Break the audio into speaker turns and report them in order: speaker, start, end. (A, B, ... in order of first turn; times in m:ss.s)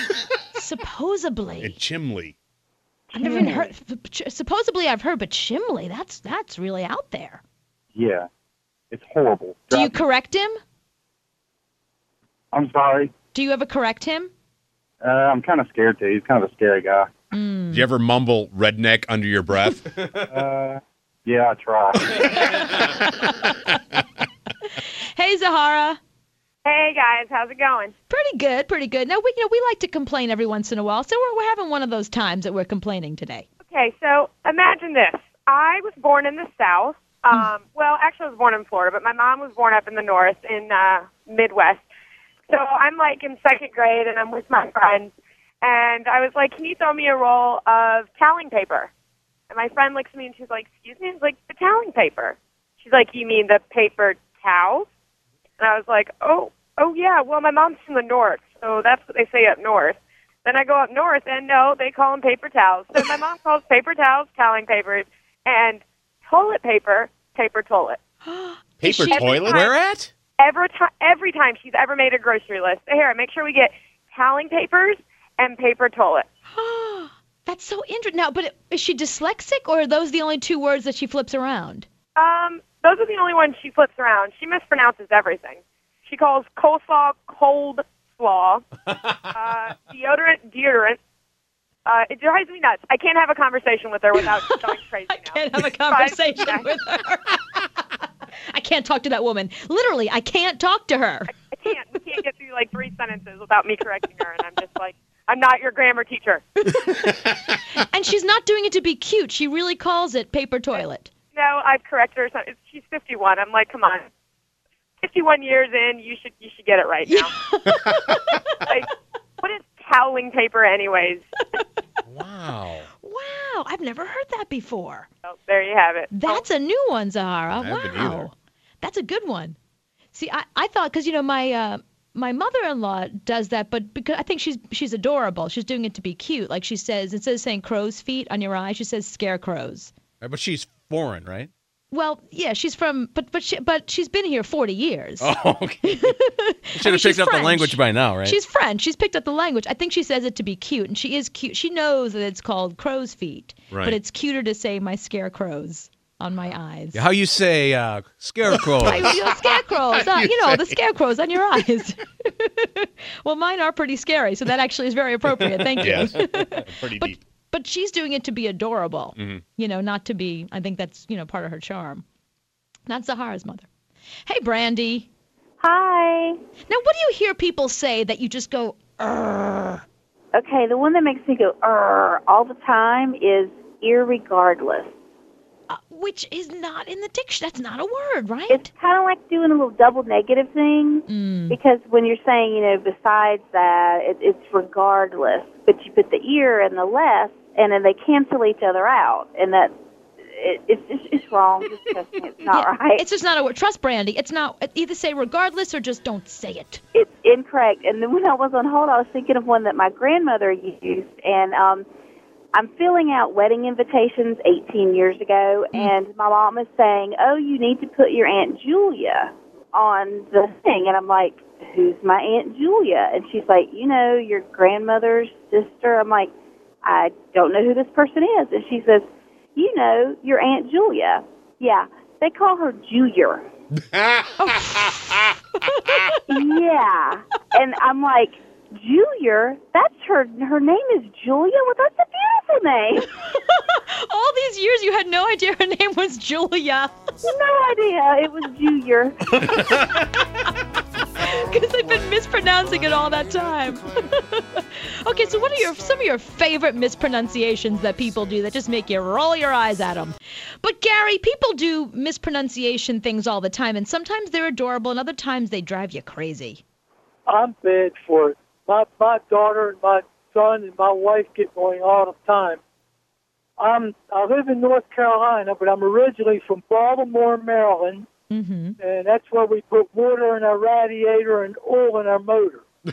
0:00.5-0:01.8 A
0:01.6-0:02.4 B
0:03.1-0:07.4 A
0:03.2-0:03.7 C
0:08.0-0:08.3 C
0:08.9-0:10.0 C
0:09.7-0:10.6 A
0:12.5-0:13.1 C
0:13.3-0:14.3 A
0:15.0-0:17.1 C
0:17.3-0:17.9 A
0:17.7-0:19.9 B
0:20.3-0:22.2 C
0:22.5-0:23.8 A
0:24.8-0:26.0 A
0:26.6-0:28.0 D
0:28.1-0:33.5 A
0:33.6-0:41.8 D
0:42.5-0:45.1 D
0:45.6-0:48.9 D
0:49.5-0:54.9 D
0:55.6-1:08.0 D
1:08.2-1:09.4 A
1:08.8-1:09.7 B
1:09.1-1:09.7 D
1:09.5-1:10.1 E
1:10.4-1:16.3 D
1:16.5-1:21.9 A
1:22.2-1:28.6 D
1:29.3-1:31.0 D
1:31.9-1:36.7 D
1:34.1-1:37.7 A
1:38.5-1:41.3 A
1:41.3-1:46.4 D
1:46.7-1:51.1 A
1:51.3-1:54.1 D
1:55.0-1:57.3 D
1:57.1-1:58.4 A
1:59.4-2:01.3 D
2:02.1-2:02.9 B
2:03.0-2:05.1 A
2:05.2-2:06.4 D
2:06.1-2:09.6 A
2:07.5-2:08.3 B
2:10.1-2:19.9 A
2:20.2-2:21.5 E
2:21.9-2:37.0 A
2:25.2-2:26.0 E
2:26.8-2:28.4 E
2:33.7-2:34.0 B
2:36.9-2:39.1 E
2:38.5-2:40.8 B
2:38.8-2:52.0 A
2:45.8-2:47.2 B
2:49.2-2:49.4 B
2:52.9-2:53.7 A
2:54.3-2:55.1 A
2:55.6-2:56.4 F
2:56.7-2:59.8 A
3:00.4-3:04.9 F
3:05.7-3:08.7 A
3:08.5-3:19.7 F
3:11.1-3:11.6 A
3:20.3-3:23.0 F
3:22.4-3:26.8 A
3:26.9-3:31.9 F
3:32.5-3:46.3 F
3:46.8-3:53.5 F
3:53.8-3:54.4 B
3:54.4-3:56.4 A
3:56.3-4:03.1 F
4:03.1-4:06.9 A
4:07.2-4:09.4 F
4:11.2-4:26.6 A
4:27.3-4:32.6 G
4:33.6-4:38.1 G
4:38.3-4:38.8 A
4:38.8-4:42.6 G